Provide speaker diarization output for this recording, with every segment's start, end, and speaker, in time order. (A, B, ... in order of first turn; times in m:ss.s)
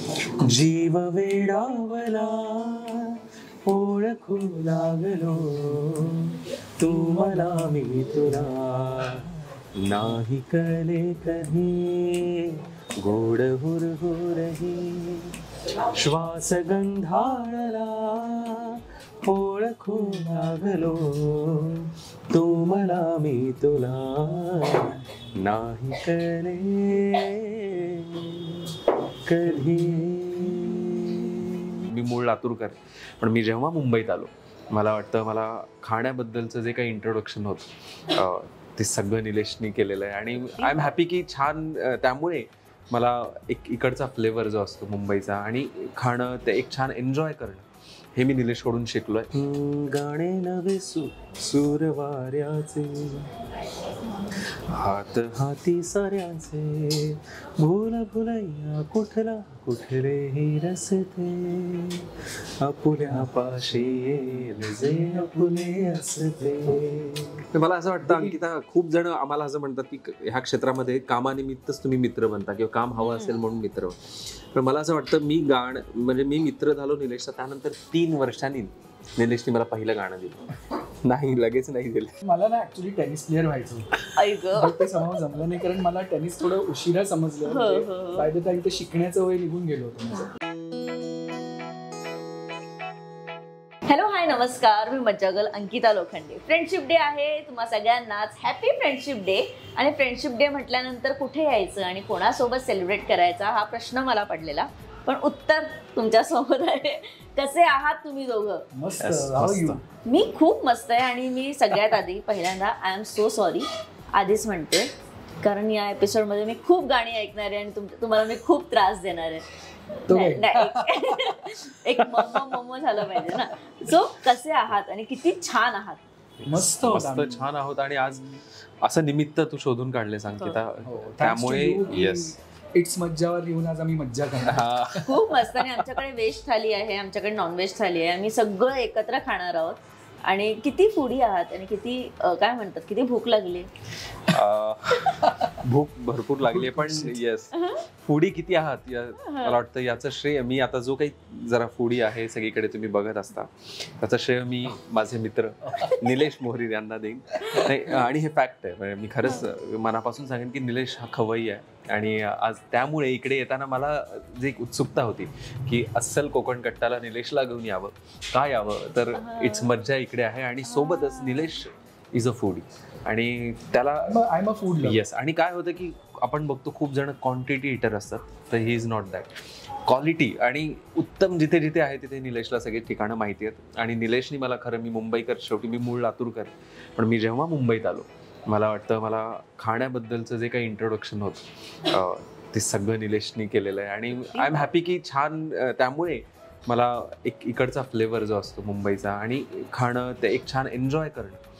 0:00.4-0:15.3 A
0:15.9-0:53.3 A
0:24.6-0:25.4 B
0:40.6-0:40.9 C
0:54.3-1:22.1 A
1:08.0-1:08.4 B
1:13.0-1:13.4 C
1:22.2-1:30.3 B
1:24.1-1:24.9 C
1:27.4-1:28.3 C
1:33.8-1:48.6 C
1:48.7-1:49.8 B
1:49.0-1:49.8 A
1:50.0-1:54.9 C
1:55.4-1:59.4 C
2:00.1-2:02.5 B
2:00.1-2:06.0 C
2:03.1-2:03.4 B
2:06.4-2:12.3 A
2:06.4-2:07.5 B
2:10.8-2:15.3 B
2:14.4-2:15.1 A
2:15.0-2:23.7 C
2:24.3-2:54.2 A
2:25.2-2:25.5 B
2:26.4-2:27.2 B
2:27.5-2:27.8 C
2:29.2-2:29.6 C
2:35.7-2:36.1 B
2:37.4-2:37.7 B
2:39.2-2:39.5 C
2:49.1-2:49.7 C
2:50.7-2:51.5 C
2:54.1-2:55.0 B
2:54.8-2:59.3 A
2:59.8-3:21.4 A
3:14.3-3:14.7 C